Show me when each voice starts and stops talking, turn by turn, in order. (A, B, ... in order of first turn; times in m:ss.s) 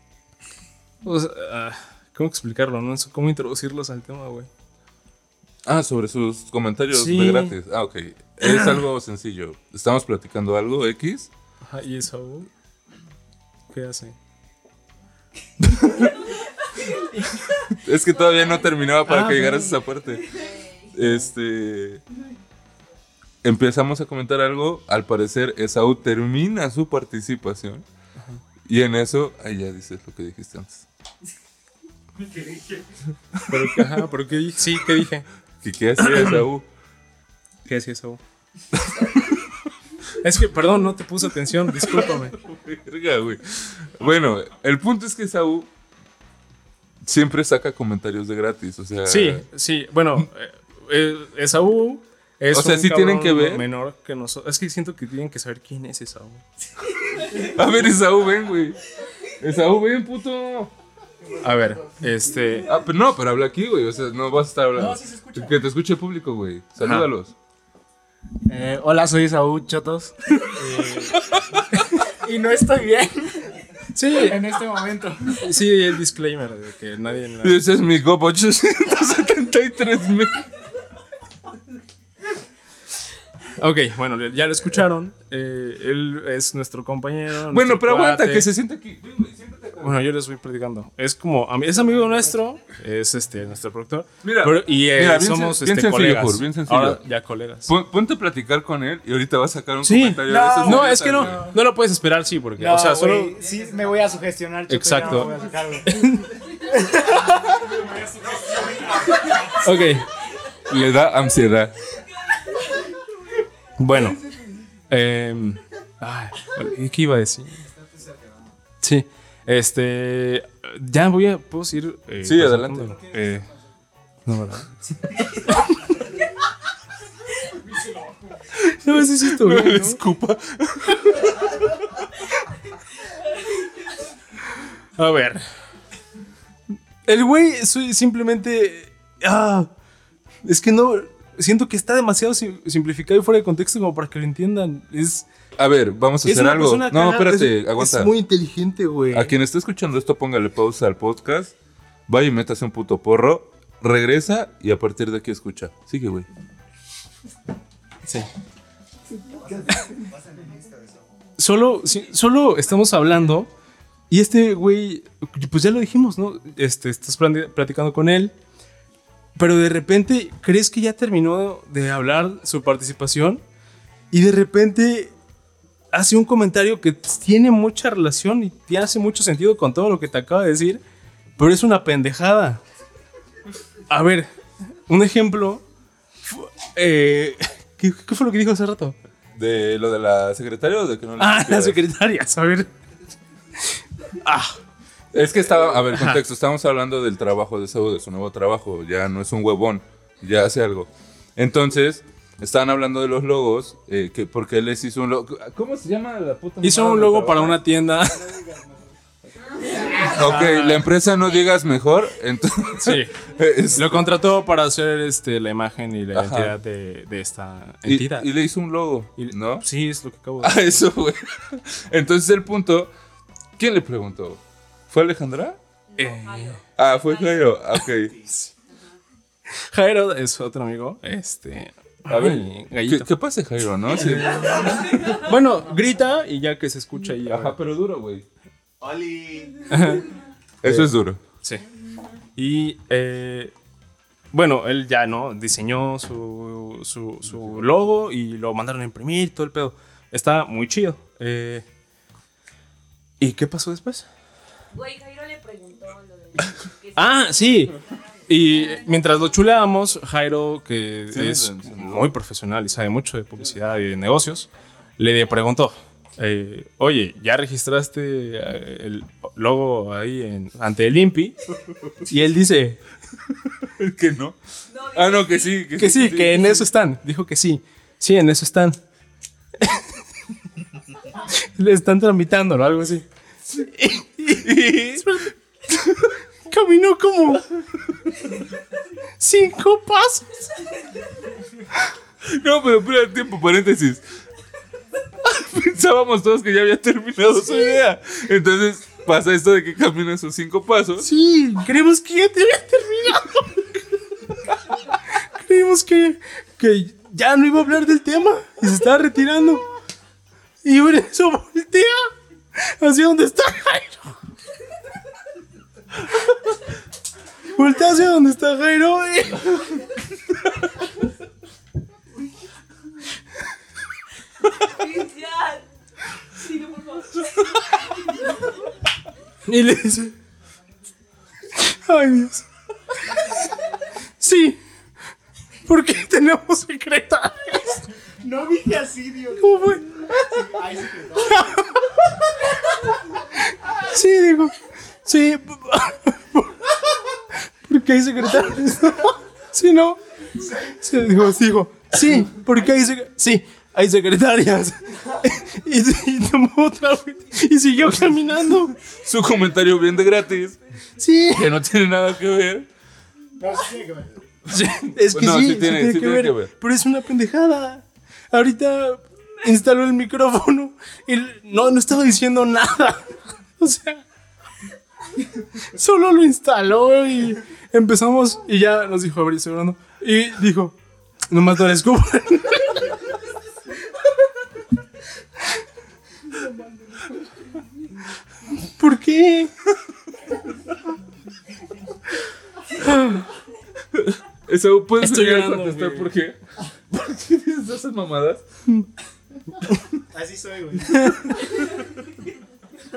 0:01.0-0:04.5 A
0:05.6-0:11.3 B
0:06.9-0:07.6 A
0:11.6-0:12.5 A
0:13.7-0:14.2 A
0:15.6-0:16.1 A
0:15.8-0:17.0 C
0:16.9-0:17.8 A
0:17.8-0:20.3 B
0:18.1-0:19.2 C
0:19.0-0:19.8 A
0:19.9-0:21.0 C
0:20.9-0:22.0 B
0:23.4-0:27.8 B
0:28.6-0:30.8 B
0:33.5-0:35.3 A
0:35.6-0:36.7 B
0:36.0-0:36.4 A
0:37.6-0:38.2 A
0:40.2-0:42.4 A
0:41.8-0:45.7 B
0:47.0-0:49.4 B
0:49.0-0:56.4 A
0:52.5-0:53.6 B
0:57.2-0:58.8 B
0:59.4-1:00.7 B
1:01.4-1:01.7 D
1:01.4-1:02.7 A
1:02.6-1:07.3 B
1:05.0-1:05.4 D
1:06.8-1:07.1 A
1:08.4-1:11.1 D
1:10.5-1:11.2 A
1:11.7-1:12.0 A
1:12.0-1:15.4 D
1:13.9-1:14.4 A
1:15.3-1:17.6 A
1:17.4-1:20.5 B
1:23.6-1:28.5 A
1:27.5-1:30.0 B
1:29.8-1:37.7 A
1:34.2-1:37.0 B
1:37.6-1:41.5 B
1:39.8-1:43.4 A
1:40.3-1:41.4 D
1:42.6-1:46.0 D
1:44.7-1:45.3 A
1:45.8-1:47.6 A
1:47.6-1:49.5 D
1:48.9-1:49.4 C
1:49.4-1:50.0 A
1:50.7-1:51.8 B
1:51.9-1:52.9 C
1:53.8-1:54.2 A
1:54.9-1:57.7 A
1:57.7-1:58.5 D
1:58.8-2:03.5 A
2:02.2-2:03.0 B
2:03.0-2:03.7 D
2:04.2-2:04.7 A
2:05.4-2:05.6 A
2:08.6-2:10.0 A
2:08.7-2:11.7 B
2:14.5-2:15.4 A
2:17.0-2:19.7 A
2:20.4-2:25.3 A
2:25.6-2:28.1 B
2:26.2-2:29.4 A
2:29.1-2:31.6 B
2:32.1-2:36.3 B
2:38.0-2:38.3 A
2:39.2-2:41.1 D
2:41.4-2:43.5 A
2:44.1-2:48.3 A
2:49.4-2:53.4 A
2:54.1-2:55.2 A
2:55.9-3:00.8 A
3:01.4-3:02.6 A
3:03.9-3:04.3 A
3:04.9-3:05.6 A
3:06.2-3:09.0 A
3:09.4-3:11.8 B
3:11.2-3:12.7 A
3:14.0-3:14.6 A
3:15.1-3:27.6 B
3:15.9-3:16.2 A
3:26.6-3:28.3 A
3:28.0-3:29.0 D
3:29.6-3:30.2 D
3:30.0-3:34.1 B
3:30.1-3:30.9 A
3:32.8-3:38.3 A
3:36.1-3:36.6 B
3:37.8-3:39.6 B
3:39.2-3:40.9 A
3:40.4-3:42.9 B
3:43.6-3:45.6 B
3:45.9-3:47.8 C
3:46.0-3:46.6 A
3:46.8-3:48.2 B
3:48.7-3:49.0 C
3:49.5-3:53.1 A
3:52.1-3:55.1 B
3:54.5-3:55.1 D
3:55.1-3:57.6 A
3:57.2-3:58.2 B
3:58.8-3:59.5 D
3:59.7-4:01.6 A
4:00.6-4:01.2 B
4:02.4-4:03.5 A
4:04.3-4:11.6 A
4:13.2-4:14.1 A
4:14.7-4:19.5 C
4:17.0-4:17.7 A
4:18.3-4:31.4 A
4:21.1-4:22.1 B
4:32.0-4:32.8 A
4:33.6-4:34.4 B
4:34.7-4:35.6 C
4:34.9-4:36.7 B
4:35.8-4:38.8 A
4:39.6-4:40.0 A
4:41.1-4:47.5 A
4:44.4-4:45.1 B
4:49.2-4:50.5 A
4:52.2-4:54.0 B
4:55.2-5:01.1 B
5:01.0-5:03.8 A
5:05.1-5:09.6 A
5:10.6-5:14.2 A
5:17.5-5:19.7 A
5:24.6-5:25.7 C
5:26.3-5:28.5 C
5:29.4-5:30.1 A
5:31.5-5:32.4 A
5:33.0-5:33.5 A
5:34.2-5:34.6 A
5:35.6-5:37.9 A
5:38.2-5:41.4 D
5:39.4-5:40.5 A
5:41.2-5:42.2 A
5:43.2-5:58.7 A
5:57.9-6:00.6 B
6:01.0-6:01.5 A
6:01.3-6:02.7 B
6:03.4-6:04.2 D
6:04.5-6:14.0 A
6:05.1-6:06.5 B
6:15.5-6:20.8 A
6:21.3-6:23.1 A
6:28.6-6:29.5 A
6:32.8-6:33.2 A
6:34.0-6:36.4 B
6:35.0-6:36.2 A
6:36.9-6:38.4 B
6:40.1-6:41.6 D
6:41.0-6:41.5 A